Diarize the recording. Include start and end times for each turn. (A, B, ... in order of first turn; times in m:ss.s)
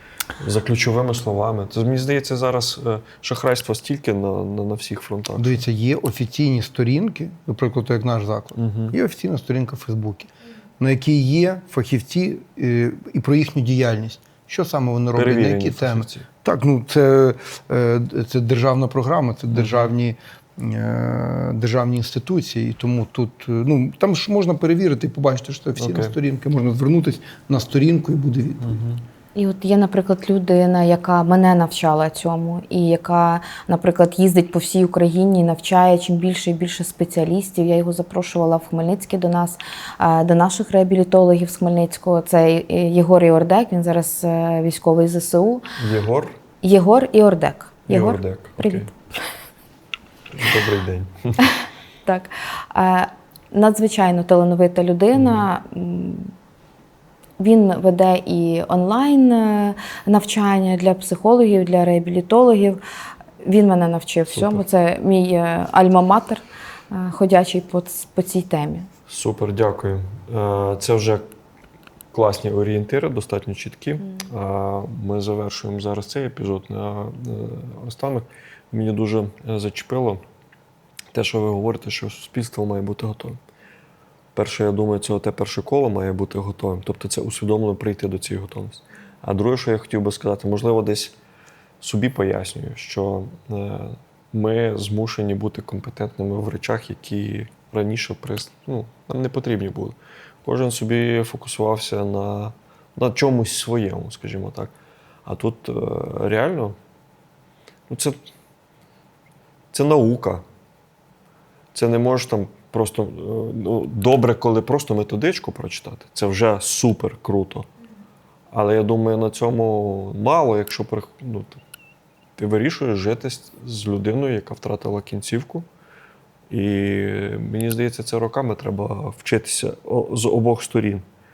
0:00.4-0:05.6 A
0:05.4-0:28.8 B
0:08.6-0:09.0 A
0:15.1-0:16.3 A
0:19.5-0:19.9 A
0:25.8-0:26.2 A
0:28.6-0:29.0 A
0:29.3-0:45.6 C
0:45.8-0:46.3 A
0:46.6-0:48.9 C
0:47.9-0:48.9 A
0:50.3-0:51.4 A
0:52.0-0:56.3 C
0:55.1-0:55.5 A
0:57.4-1:02.8 C
1:03.4-1:08.9 C
1:04.3-1:04.6 A
1:09.1-1:11.2 A
1:12.1-1:20.2 A
1:21.1-1:23.4 A
1:24.3-1:31.1 A
1:31.8-1:44.7 A
1:45.2-1:46.8 A
1:47.9-1:48.2 A
1:49.7-1:50.4 A
1:51.7-1:57.7 A
1:58.5-2:01.6 A
2:02.4-2:05.7 A
2:06.5-2:11.0 A